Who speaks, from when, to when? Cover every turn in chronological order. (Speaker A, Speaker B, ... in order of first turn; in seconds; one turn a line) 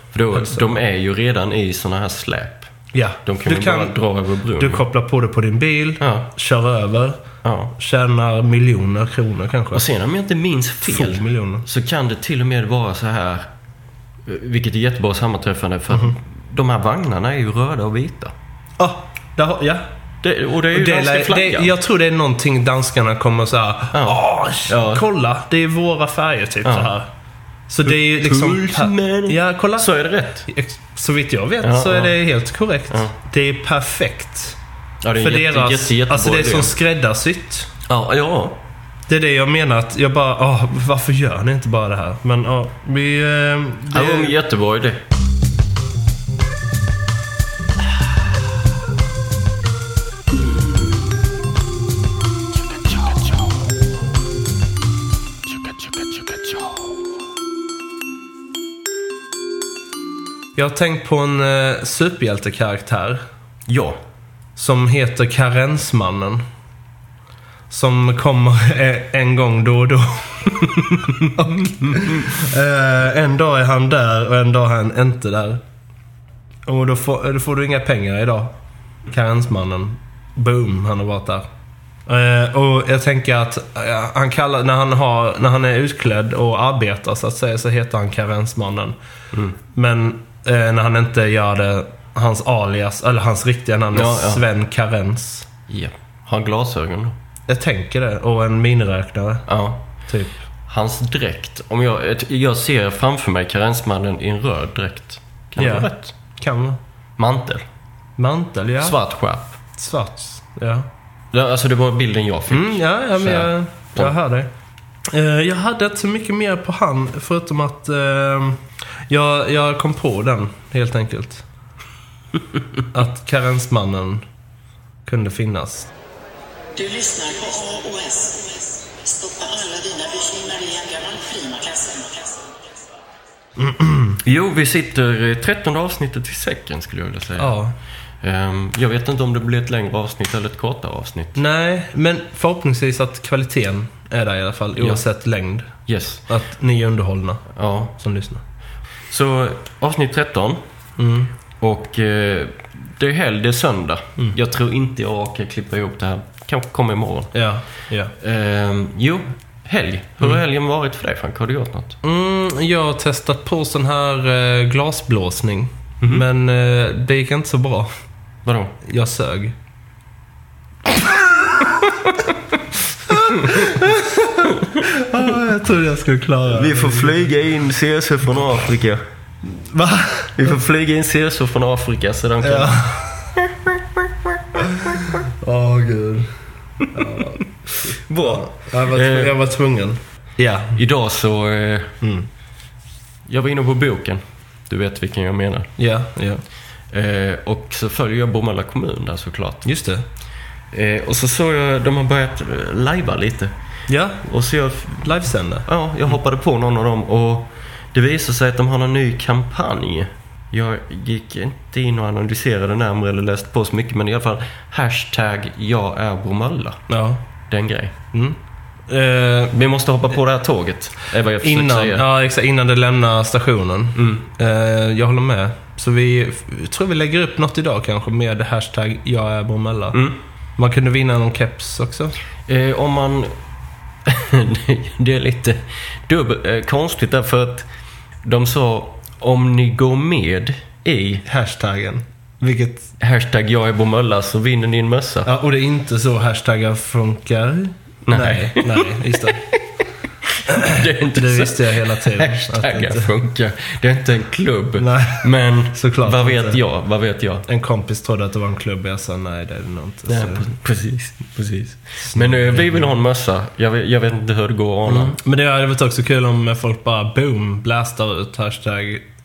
Speaker A: 0.1-2.7
Speaker B: 0.3-0.8
Speaker B: 2.9-4.0
Speaker A: 3.2-4.8
Speaker B: 4.6-7.2
Speaker A: 6.0-6.3
Speaker A: 7.4-7.7
Speaker B: 7.7-9.8
Speaker A: 9.7-13.5
Speaker B: 10.8-11.6
Speaker A: 14.2-18.3
Speaker B: 18.8-19.9
Speaker A: 20.2-21.7
Speaker B: 20.7-27.1
Speaker A: 23.9-25.0
Speaker A: 26.6-26.9
Speaker B: 27.7-34.6
Speaker A: 27.8-30.5
Speaker A: 31.6-32.2
Speaker A: 35.0-36.7
Speaker B: 35.2-37.8
Speaker A: 37.9-38.6
Speaker B: 39.1-44.3
Speaker A: 43.9-45.0
Speaker B: 60.5-63.2
Speaker A: 63.7-64.0
Speaker B: 64.5-66.4
Speaker B: 67.7-75.6
Speaker A: 70.9-72.2
Speaker B: 76.7-78.5
Speaker B: 79.1-81.5
Speaker B: 82.0-88.9
Speaker B: 89.7-95.5
Speaker A: 93.9-94.4
Speaker A: 95.7-97.2
Speaker B: 97.5-100.4
Speaker A: 99.5-99.9
Speaker A: 100.7-106.1
Speaker B: 105.6-106.8
Speaker A: 107.2-107.6
Speaker B: 108.2-109.0
Speaker A: 108.8-109.5
Speaker B: 109.7-110.9
Speaker A: 111.3-114.1
Speaker B: 112.5-114.5
Speaker B: 115.1-121.4
Speaker B: 122.9-124.2
Speaker B: 125.0-125.9
Speaker C: 126.8-132.6
Speaker B: 133.6-134.2
Speaker A: 134.2-137.6
Speaker B: 137.4-137.7
Speaker A: 138.2-141.4
Speaker B: 141.3-148.4
Speaker A: 144.8-145.0
Speaker A: 145.9-146.2
Speaker A: 147.6-147.9
Speaker A: 149.1-150.6
Speaker B: 151.0-151.3
Speaker A: 151.6-157.3
Speaker B: 157.3-158.1
Speaker A: 158.2-162.0
Speaker B: 162.0-167.9
Speaker A: 168.4-168.7
Speaker B: 168.8-169.5
Speaker B: 171.0-171.9
Speaker B: 173.1-177.3
Speaker A: 173.1-173.7
Speaker A: 176.5-179.0
Speaker B: 179.5-180.5
Speaker A: 180.3-182.8
Speaker B: 182.4-183.3
Speaker B: 184.8-186.3
Speaker B: 186.9-190.8
Speaker A: 188.1-189.3
Speaker A: 190.8-191.9
Speaker B: 192.0-192.3
Speaker A: 193.3-195.7
Speaker B: 195.8-196.4
Speaker A: 196.9-199.7
Speaker B: 199.6-200.0
Speaker A: 200.7-203.5
Speaker B: 203.9-205.7
Speaker A: 204.2-205.1
Speaker A: 205.6-216.8
Speaker B: 216.9-217.2
Speaker A: 217.5-217.9
Speaker B: 218.1-218.4
Speaker B: 218.9-219.6
Speaker A: 219.5-222.0
Speaker B: 221.4-230.0
Speaker A: 223.9-224.2
Speaker A: 229.9-230.2
Speaker B: 230.6-232.1
Speaker A: 232.5-233.3
Speaker A: 234.1-237.7
Speaker A: 238.2-241.2
Speaker B: 241.2-242.9
Speaker A: 243.0-245.3
Speaker B: 245.2-249.4
Speaker A: 248.1-249.6
Speaker A: 250.3-257.4
Speaker B: 250.5-253.1
Speaker B: 254.8-256.6
Speaker B: 257.4-260.5
Speaker A: 260.1-265.2
Speaker B: 262.1-262.9
Speaker B: 264.9-269.0